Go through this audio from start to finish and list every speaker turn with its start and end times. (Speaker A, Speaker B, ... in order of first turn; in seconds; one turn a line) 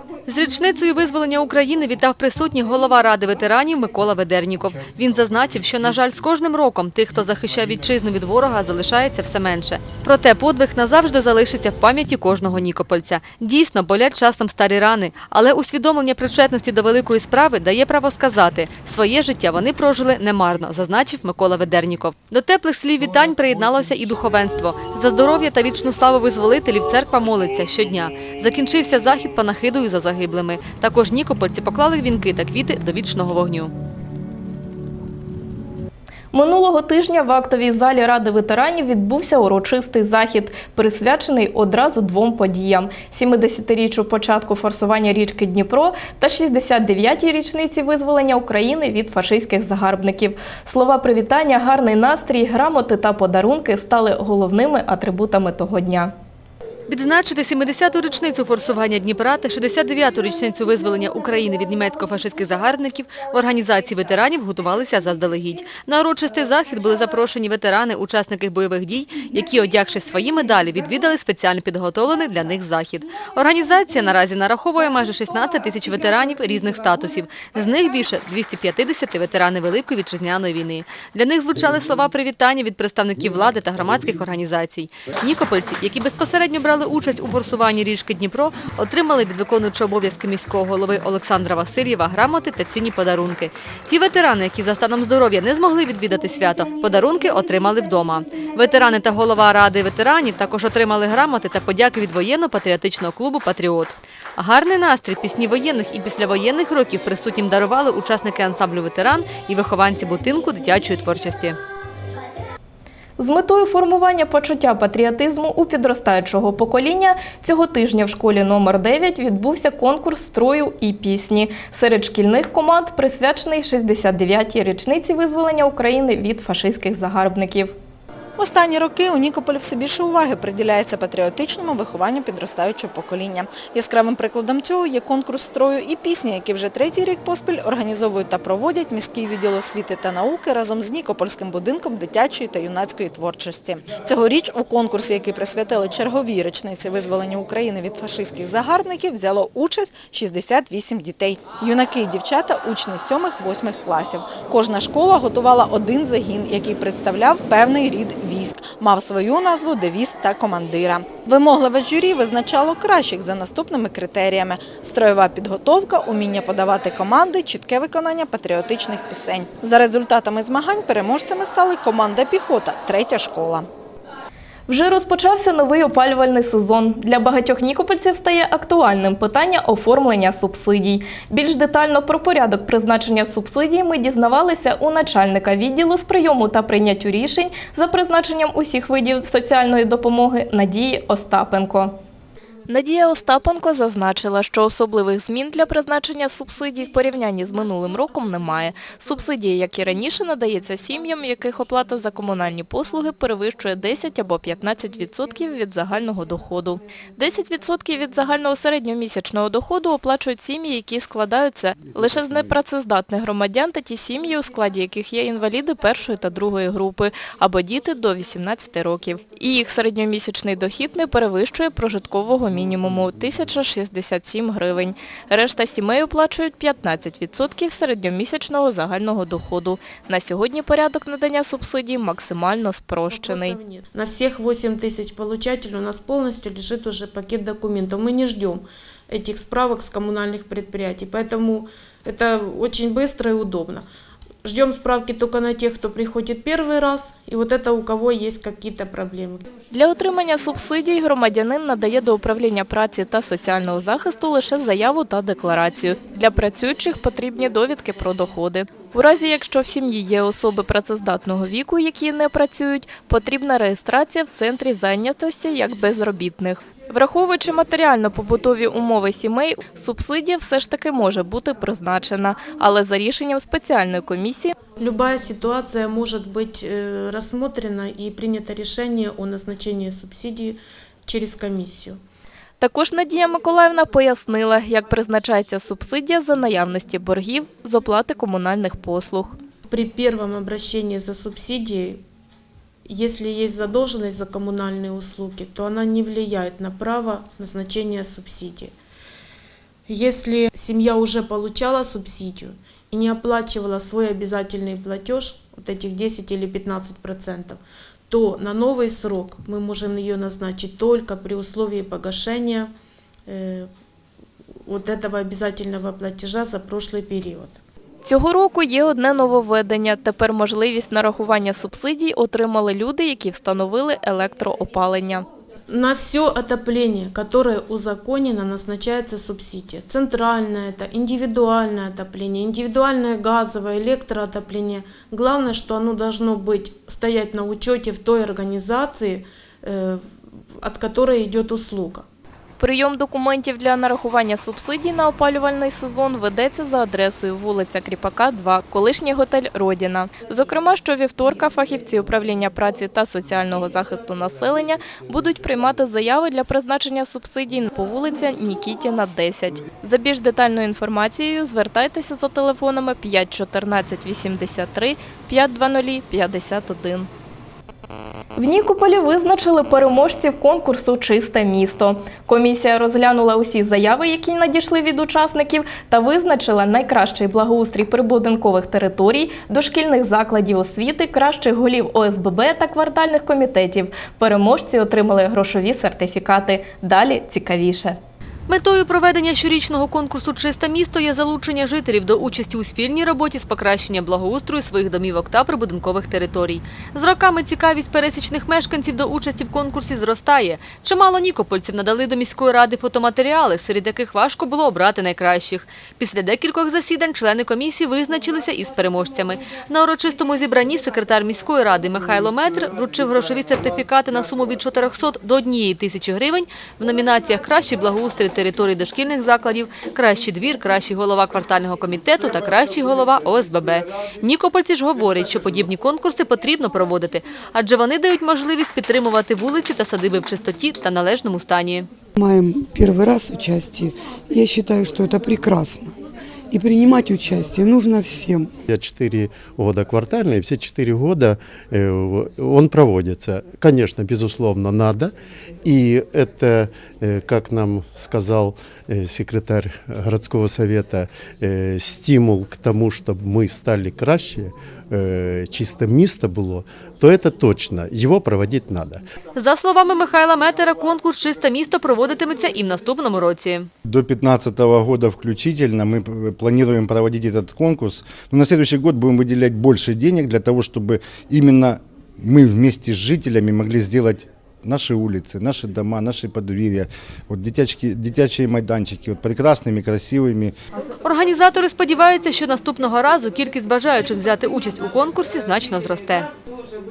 Speaker A: 0.3-33.7
Speaker B: 36.3-56.1
Speaker A: 56.9-111.6
Speaker B: 113.2-127.7
Speaker C: 128.4-173.7
Speaker B: 174.7-191.9
Speaker B: 192.7-233.6
Speaker D: 233.1-243.9
Speaker D: 244.4-249.4
Speaker B: 249.7-274.6
Speaker D: 274.8-282.0
Speaker B: 282.6-289.4
Speaker D: 289.7-292.0
Speaker D: 292.9-298.7
Speaker D: 299.9-312.7
Speaker D: 313.3-313.7
Speaker D: 314.7-317.6
Speaker B: 318.1-325.3
Speaker D: 325.7-340.0
Speaker D: 340.6-342.1
Speaker B: 342.6-367.1
Speaker B: 368.4-388.0
Speaker A: 388.5-431.9
Speaker E: 432.2-435.9
Speaker E: 436.5-438.5
Speaker F: 438.7-445.1
Speaker F: 445.6-459.0
Speaker A: 459.3-463.7
Speaker G: 463.9-480.5
Speaker A: 481.0-486.3